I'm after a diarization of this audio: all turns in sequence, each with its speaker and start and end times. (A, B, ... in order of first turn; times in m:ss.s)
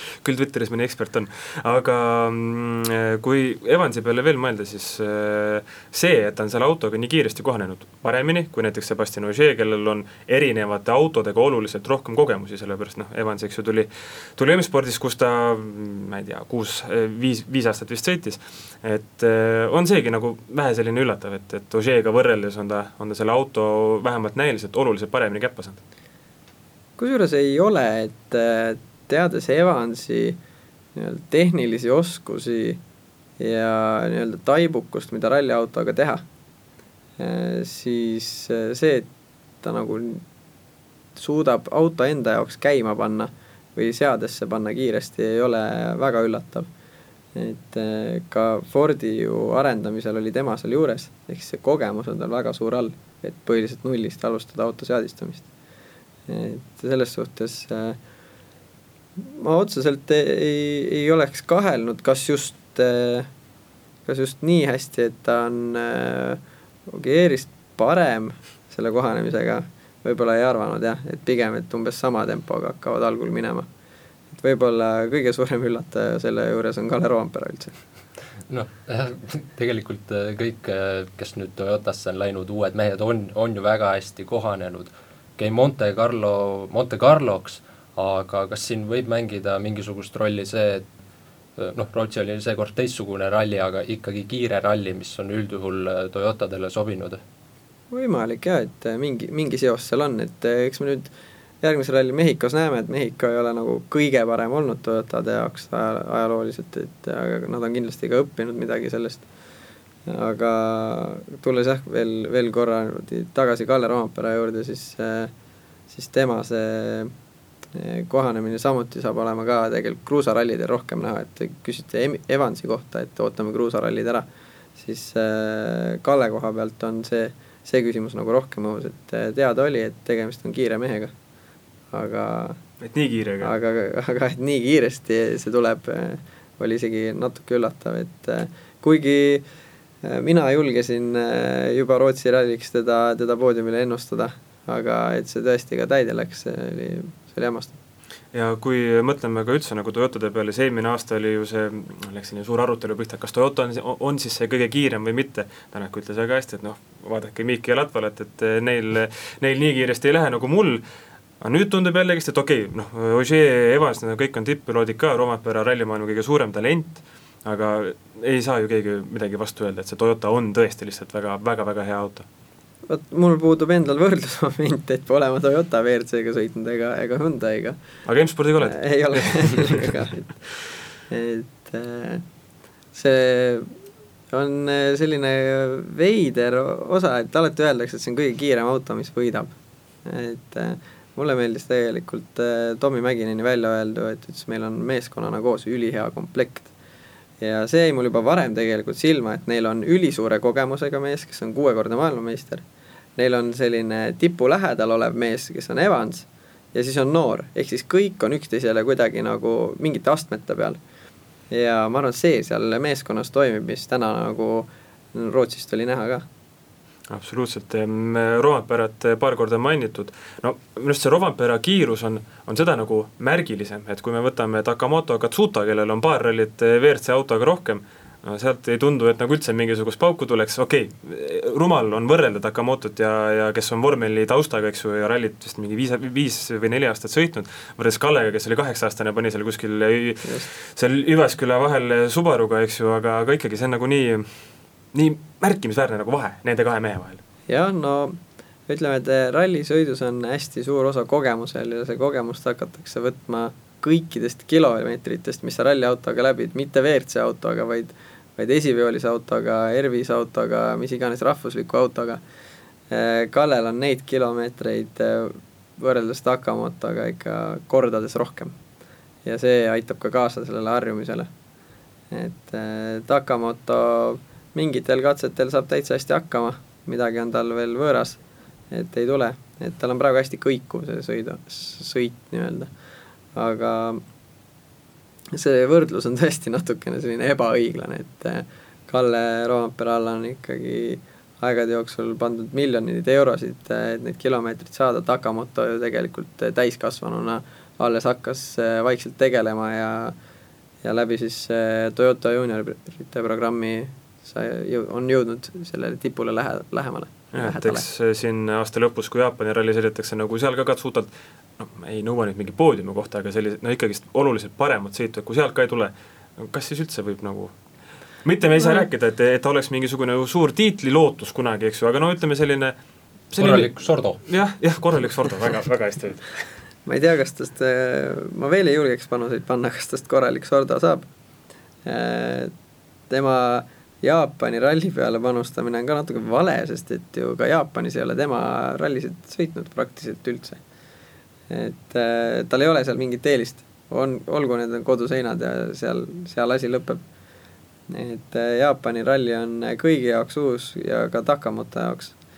0:00.2-0:25.8 A
0:27.0-0:30.4 B
0:31.0-0:32.8 B
0:33.4-0:36.2 B
0:37.2-0:39.1 B
0:39.6-0:40.2 B
0:41.2-0:46.7 B
0:47.4-0:55.5 B
0:56.3-0:58.0 B
0:59.2-1:03.3 B
1:04.1-1:13.7 B
1:14.3-1:17.8 B
1:18.5-1:30.9 C
1:31.6-1:37.2 C
1:37.9-1:41.1 B
1:41.6-1:49.2 B
1:50.1-1:55.3 B
1:55.9-1:57.1 B
1:57.7-2:04.2 B
2:04.8-2:11.1 B
2:11.9-2:12.6 B
2:12.8-2:13.5 A
2:13.4-2:19.4 B
2:20.0-2:27.8 B
2:28.3-2:40.8 A
2:41.4-2:52.3 A
2:52.9-2:57.8 B
2:58.0-2:59.9 A
2:58.6-3:00.4 B
3:01.1-3:02.2 B
3:03.0-3:03.7 B
3:04.3-3:09.5 B
3:10.0-3:16.7 B
3:17.4-3:22.6 B
3:23.2-3:30.8 B
3:31.5-3:36.2 B
3:37.1-4:04.3 A
4:04.9-4:07.2 A
4:07.5-4:22.2 B
4:22.9-4:28.6 B
4:29.2-4:31.3 B
4:32.1-4:38.2 B
4:38.7-4:42.7 B
4:43.4-4:44.0 B
4:45.3-5:00.2 B
5:00.8-5:07.8 B
5:07.3-5:17.5 A
5:18.2-5:22.7 A
5:18.6-5:18.9 B
5:23.3-5:23.7 A
5:23.4-5:24.2 C
5:24.2-5:26.5 A
5:26.9-5:31.1 B
5:31.9-5:32.5 B
5:33.1-5:40.6 B
5:41.5-5:47.0 B
5:47.9-5:52.1 B